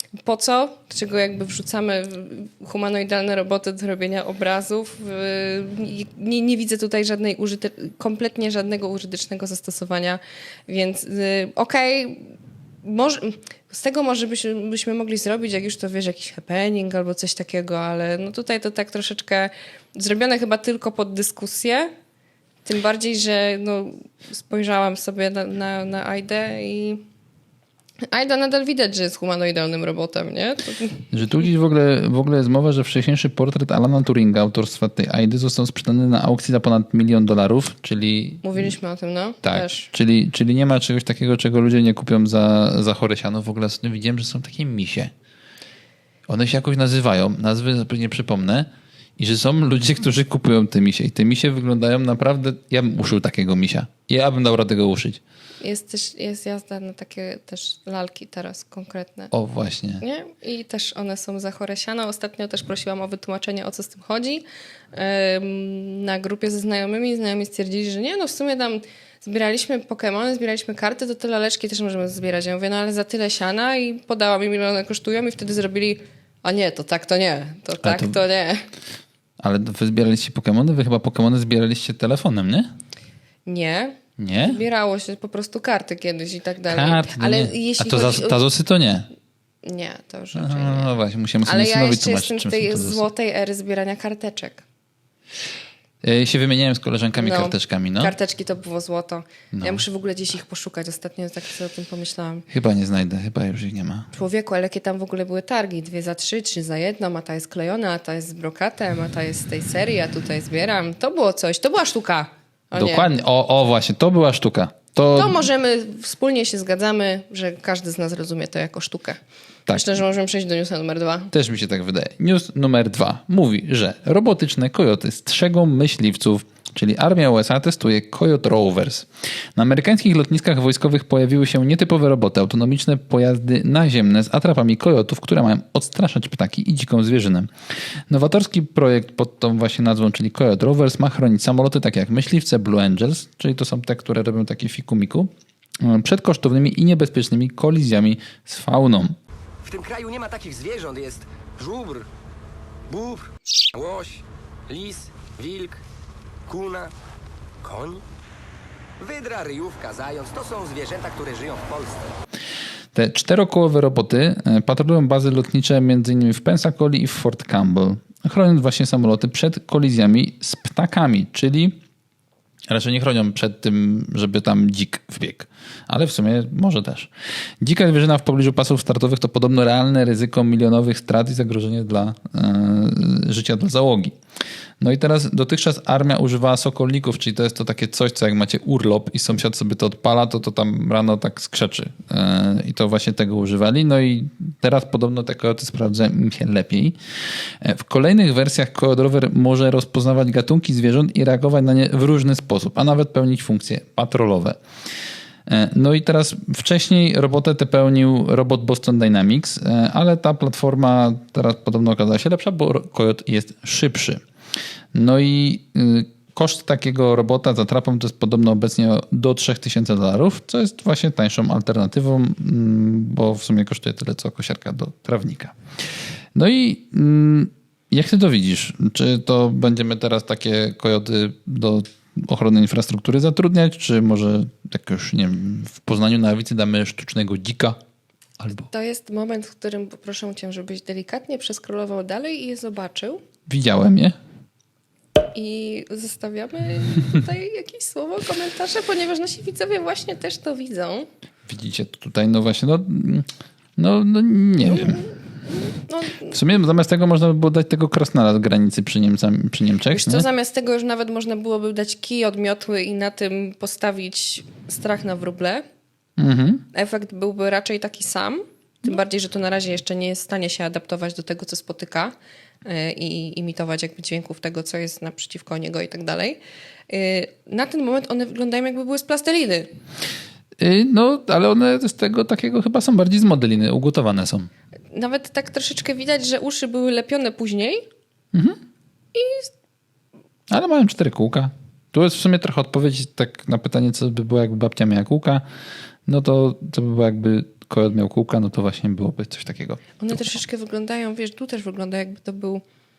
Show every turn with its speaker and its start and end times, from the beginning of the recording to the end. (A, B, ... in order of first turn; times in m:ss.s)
0:00.2-0:21.9 A
0:22.6-0:27.0 A
0:28.1-0:31.1 A
0:31.1-0:38.7 B
0:38.4-0:39.9 A
0:39.4-0:45.1 B
0:46.3-0:55.2 B
0:55.6-0:59.3 A
0:59.3-1:00.0 B
1:00.0-1:18.7 A
1:17.8-1:18.2 B
1:19.4-1:22.7 B
1:23.5-1:28.4 A
1:24.2-1:24.6 B
1:26.7-1:29.1 B
1:29.6-1:30.9 A
1:30.3-1:33.0 B
1:31.4-1:34.6 A
1:36.0-1:38.2 B
1:37.2-1:42.5 A
1:39.5-1:39.8 B
1:42.5-1:44.1 B
1:44.1-1:53.1 A
1:52.7-1:55.4 B
1:55.2-2:01.3 A
1:59.7-1:59.9 B
2:01.3-2:17.5 B
2:18.1-2:25.3 B
2:25.8-2:29.2 B
2:29.6-2:32.1 C
2:32.9-2:35.8 C
2:36.5-2:36.9 C
2:37.6-2:38.0 C
2:39.0-2:42.1 C
2:42.9-2:51.8 B
2:52.7-2:57.1 B
2:57.6-3:04.2 B
3:04.8-3:17.0 B
3:17.6-3:24.6 B
3:25.5-3:34.2 B
3:34.9-3:45.5 B
3:46.4-3:57.8 B
3:58.4-3:58.7 B
3:58.7-4:03.2 A
4:03.5-4:04.2 B
4:05.3-4:11.1 A
4:11.5-4:15.0 B
4:14.6-4:16.4 A
4:16.3-4:20.3 B
4:19.9-4:25.6 A
4:26.2-4:26.6 B
4:26.7-4:32.1 A
4:32.6-4:36.4 A
4:36.9-4:39.7 A
4:40.6-4:44.5 B
4:44.9-4:47.8 A
4:49.1-4:49.5 A
4:50.5-4:55.4 B
4:56.1-5:00.3 B
5:00.0-5:02.6 A